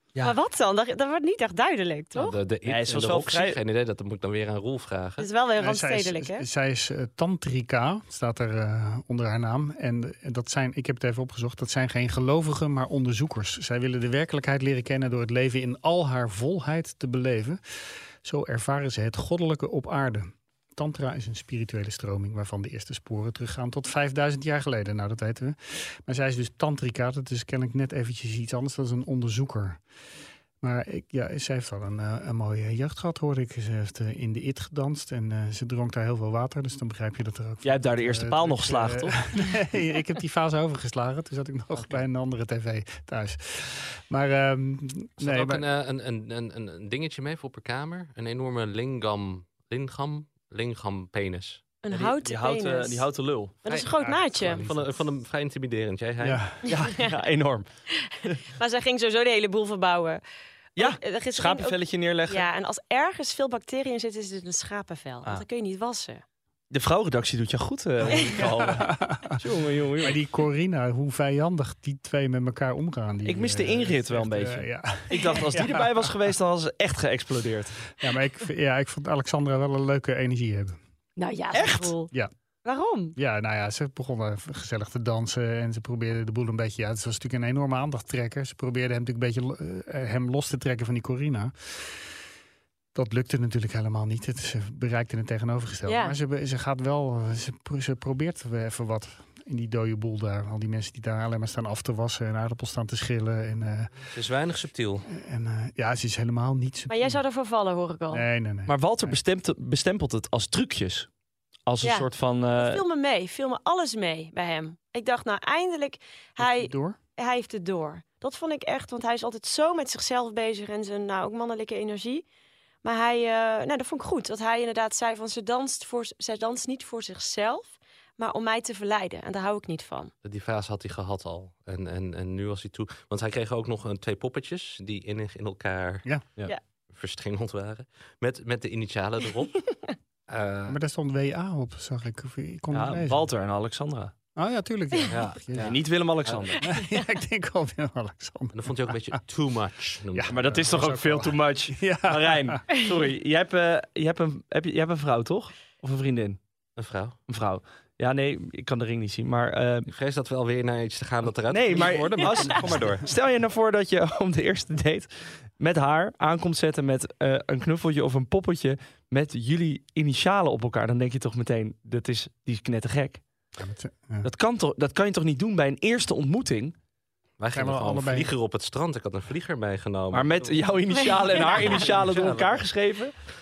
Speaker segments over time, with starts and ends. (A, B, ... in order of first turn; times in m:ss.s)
0:00.2-0:02.4 A
0:02.2-0:05.3 B
0:02.7-0:03.6 C
0:05.2-0:06.4 A
0:05.6-0:17.6 D
0:18.2-0:29.8 D
0:30.6-0:45.6 D
0:37.6-0:39.2 C
0:45.2-0:51.7 B
0:51.8-0:53.0 A
0:51.9-0:53.6 C
0:53.6-0:54.6 A
0:53.7-0:56.5 B
0:54.1-0:54.8 D
0:56.2-0:56.6 D
0:56.7-0:57.7 C
0:56.7-0:57.1 A
0:58.0-1:00.2 A
1:00.8-1:02.5 C
1:00.8-1:06.2 A
1:06.7-1:10.2 C
1:08.3-1:09.4 D
1:10.0-1:16.2 D
1:13.2-1:17.8 C
1:15.1-1:15.4 A
1:18.0-1:20.8 D
1:21.2-1:22.1 A
1:21.5-1:22.0 C
1:22.6-1:23.2 A
1:23.2-1:32.1 D
1:33.0-1:44.0 D
1:35.9-1:36.2 A
1:44.1-1:45.1 B
1:45.1-1:47.2 D
1:46.9-1:48.2 A
1:48.1-1:49.2 D
1:48.7-1:51.1 C
1:51.7-1:52.8 C
1:51.8-2:02.2 A
1:56.4-1:57.0 D
2:02.8-2:10.1 A
2:10.2-2:16.1 B
2:16.9-2:19.7 B
2:20.3-2:20.8 B
2:20.7-2:23.3 D
2:22.7-2:24.1 C
2:24.4-2:25.8 D
2:25.1-2:26.5 B
2:25.6-2:26.6 C
2:26.6-2:29.0 D
2:28.5-2:30.6 B
2:30.1-2:32.6 D
2:30.3-2:36.4 C
2:36.8-2:37.2 B
2:37.3-2:39.9 C
2:39.9-2:43.1 B
2:41.5-2:53.2 C
2:53.6-2:54.3 D
2:54.2-2:56.8 C
2:57.4-3:00.6 B
2:57.5-2:58.3 D
3:00.1-3:03.1 C
3:01.0-3:01.7 A
3:01.4-3:02.6 B